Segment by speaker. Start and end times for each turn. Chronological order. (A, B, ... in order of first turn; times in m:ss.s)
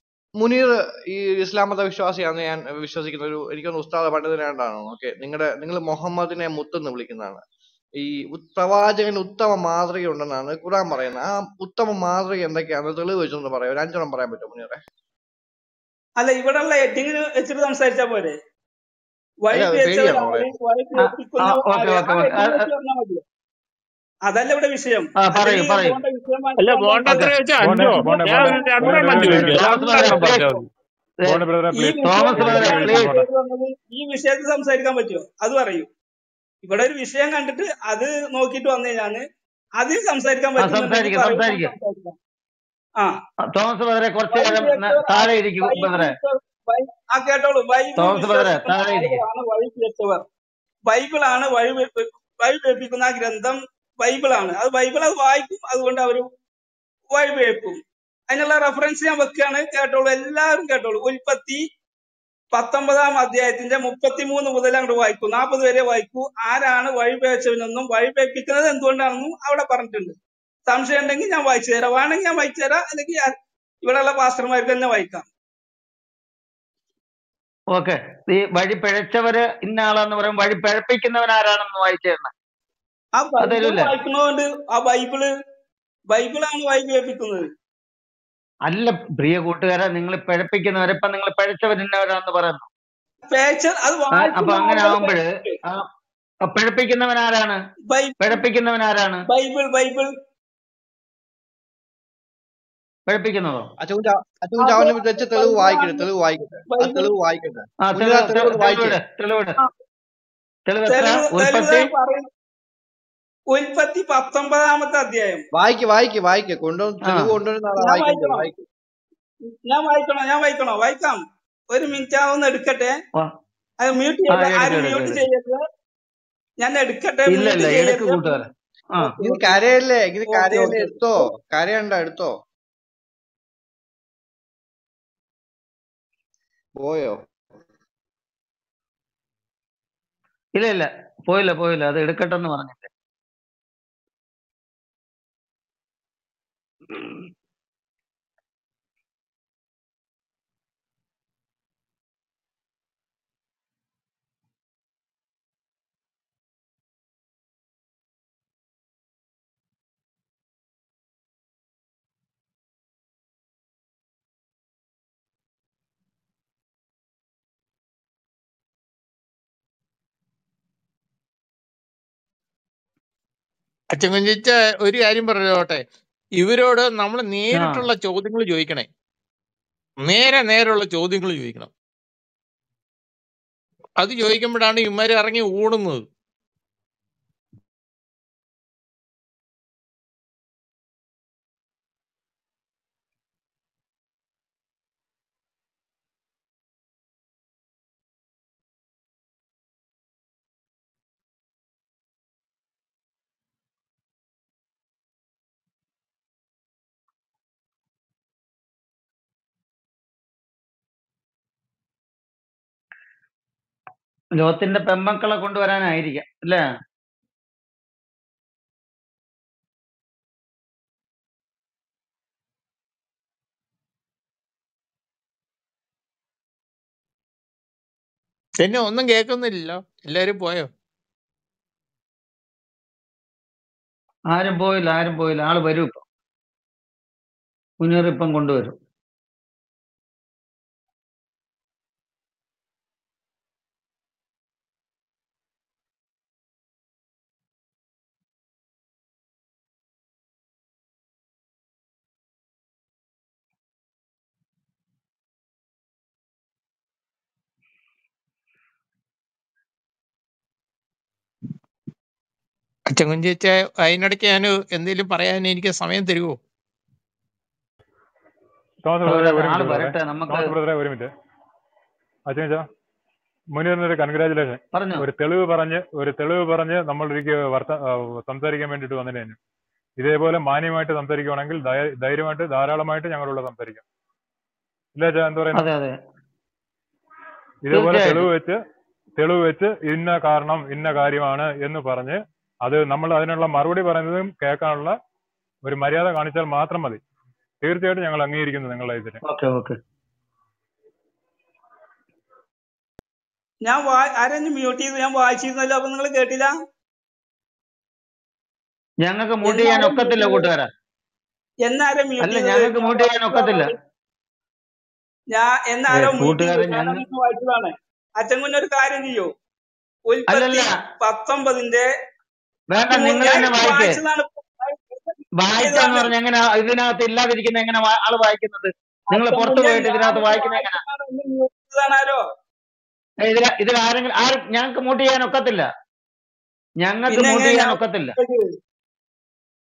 0:00.4-0:07.4 A
0:08.0-0:14.8 A
0:16.2-0:18.4 B
0:19.4-0:23.2 B
0:19.5-0:20.5 A
0:21.0-0:22.6 C
0:24.3-0:27.3 B
0:25.2-0:26.0 C
0:26.6-0:30.7 D
0:27.0-0:27.3 C
0:27.6-0:30.4 E
0:28.0-0:29.4 B
0:29.4-0:30.5 C
0:31.2-0:33.3 E
0:31.7-0:35.9 B
0:32.0-0:33.1 C
0:36.6-0:39.2 B
0:39.8-0:42.2 B
0:40.6-0:41.7 C
0:43.5-0:46.1 C
0:44.3-0:50.2 B
0:48.0-0:49.2 C
0:50.9-0:56.3 B
0:57.1-0:57.8 B
0:58.3-1:01.6 B
1:02.5-1:13.3 B
1:13.8-1:15.2 B
1:17.7-1:22.3 C
1:23.2-1:25.3 B
1:23.4-1:23.9 C
1:26.1-1:27.5 B
1:28.7-1:32.7 C
1:33.2-1:35.6 B
1:34.1-1:35.9 C
1:36.4-1:37.6 C
1:37.9-1:38.4 B
1:38.2-1:39.2 C
1:39.3-1:40.1 B
1:43.1-1:43.7 C
1:43.8-1:49.0 A
1:44.6-1:46.1 B
1:46.7-1:47.1 B
1:47.8-1:49.6 C
1:50.7-1:51.9 C
1:50.9-1:52.3 B
1:53.5-1:55.4 B
1:55.5-1:58.6 A
1:57.0-1:57.3 C
1:57.8-1:58.5 B
1:59.6-2:01.2 B
2:01.7-2:03.0 B
2:03.8-2:05.6 B
2:04.3-2:05.2 C
2:06.6-2:08.4 B
2:07.3-2:09.1 C
2:09.0-2:09.6 B
2:09.2-2:12.4 A
2:10.3-2:11.3 B
2:16.8-2:17.2 A
2:20.6-2:22.9 C
2:53.9-2:55.8 D
2:56.4-2:58.9 D
2:57.5-2:57.9 C
3:00.0-3:01.7 D
3:04.0-3:06.0 D
3:34.3-3:36.6 C
3:48.6-3:50.7 D
3:54.3-3:56.0 C
3:57.8-3:58.8 C
4:22.9-4:26.4 D
4:28.8-4:31.1 E
4:29.0-4:30.5 C
4:32.3-4:32.6 E
4:33.5-4:39.4 E
4:34.7-4:35.0 C
4:40.0-4:43.8 E
4:45.0-4:45.7 E
4:45.5-4:45.9 C
4:47.6-4:48.6 E
4:47.7-4:48.2 C
4:49.2-4:54.9 E
4:55.6-4:57.0 E
4:57.6-4:59.2 E
4:59.2-4:59.8 C
5:03.6-5:06.5 B
5:09.0-5:10.7 C
5:09.4-5:10.5 B
5:11.6-5:13.8 B
5:12.2-5:13.7 C
5:15.3-5:19.3 B
5:15.9-5:17.0 C
5:20.1-5:21.8 B
5:20.3-5:20.8 C
5:22.7-5:24.0 C
5:22.9-5:26.1 B
5:25.4-5:30.8 C
5:29.1-5:32.2 B
5:33.2-5:35.7 C
5:36.8-5:38.2 C
5:37.1-5:38.5 B